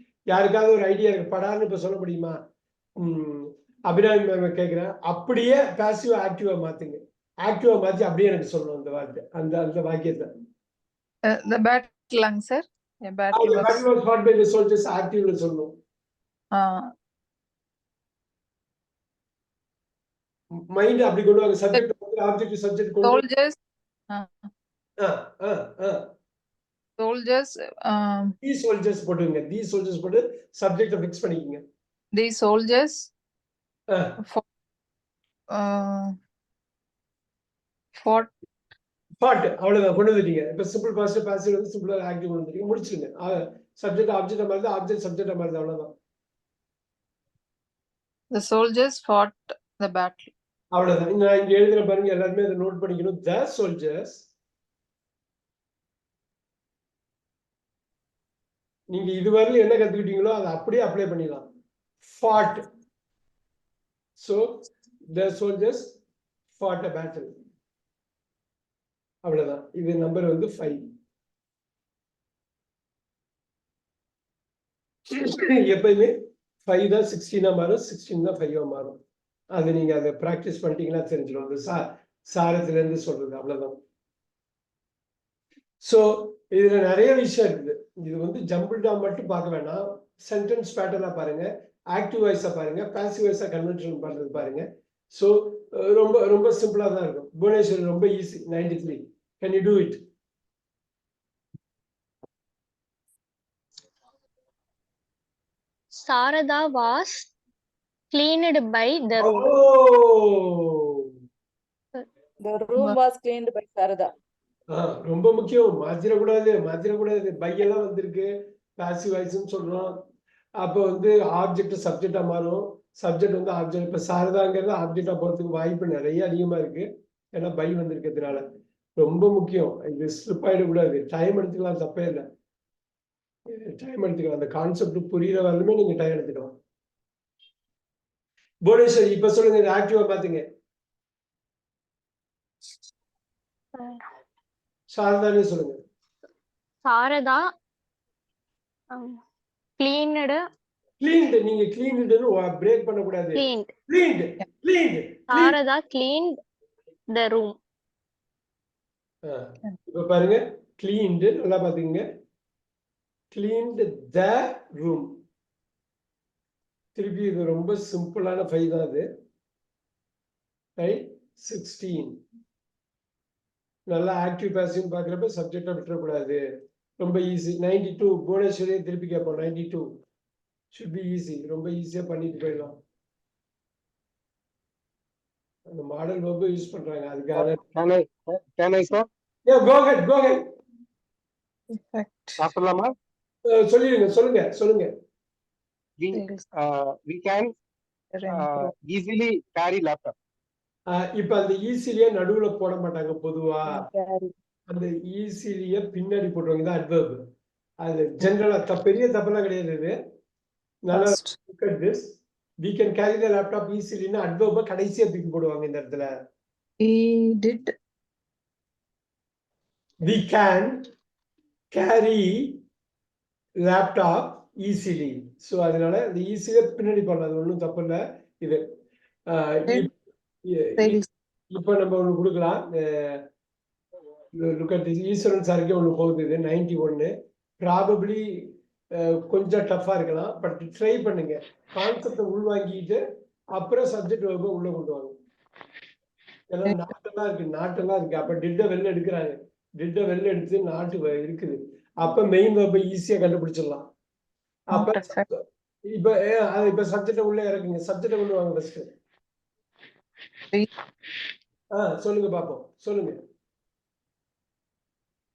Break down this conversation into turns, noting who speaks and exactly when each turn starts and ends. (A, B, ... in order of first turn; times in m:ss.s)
0:00.3-0:02.4 A
0:03.0-0:10.3 A
0:11.3-0:13.8 B
0:13.3-0:15.7 A
0:16.5-0:16.9 B
0:20.7-0:23.2 A
0:23.0-0:23.6 B
0:24.1-0:24.5 B
0:25.0-0:26.1 A
0:27.0-0:28.4 B
0:28.4-0:31.6 A
0:32.2-0:33.1 B
0:33.9-0:34.2 A
0:35.5-0:36.1 B
0:38.0-0:38.3 B
0:39.2-0:45.9 A
0:48.3-0:50.3 B
0:50.7-0:54.3 A
0:58.9-1:01.4 A
1:02.0-1:02.7 A
1:04.2-1:06.0 A
1:06.5-1:07.3 A
1:09.2-1:10.8 A
1:15.1-1:19.0 A
1:19.5-1:23.8 A
1:25.8-1:40.0 A
1:46.0-1:47.3 C
1:48.1-1:49.4 C
1:49.2-1:51.0 A
1:52.4-1:54.1 D
1:54.7-2:00.0 A
2:00.6-2:08.4 A
2:09.0-2:12.2 A
2:13.5-2:16.6 A
2:18.6-2:20.4 A
2:24.9-2:25.8 A
2:26.8-2:27.4 C
2:29.8-2:30.4 C
2:31.0-2:35.6 A
2:33.4-2:33.7 C
2:35.3-2:36.3 C
2:37.1-2:37.5 C
2:39.2-2:42.0 A
2:43.3-2:45.1 A
2:46.9-2:49.1 A
2:50.8-2:52.2 A
2:53.9-2:56.4 A
2:57.0-2:59.8 A
3:00.7-3:02.8 A
3:05.7-3:07.6 A
3:07.3-3:09.1 E
3:09.4-3:10.4 A
3:11.7-3:12.5 B
3:12.4-3:12.9 E
3:13.5-3:14.9 A
3:16.0-3:17.5 E
3:16.1-3:16.4 B
3:18.1-3:18.7 B
3:18.3-3:20.1 E
3:20.9-3:23.8 A
3:23.8-3:24.3 D
3:24.7-3:27.2 A
3:27.8-3:29.9 A
3:30.8-3:36.1 A
3:30.9-3:31.3 B
3:36.8-3:37.7 B
3:40.0-3:40.9 A
3:41.7-3:42.6 A
3:43.6-3:48.6 A
3:49.3-3:49.9 A
3:50.5-3:51.0 A
3:50.8-3:51.1 B
3:51.5-3:53.2 A
3:54.3-3:58.4 A
3:59.0-4:03.0 A
4:03.5-4:05.1 A
4:06.5-4:13.9 A
4:14.7-4:15.4 A
4:14.7-4:15.2 B
4:15.9-4:18.9 A
4:21.7-4:23.2 A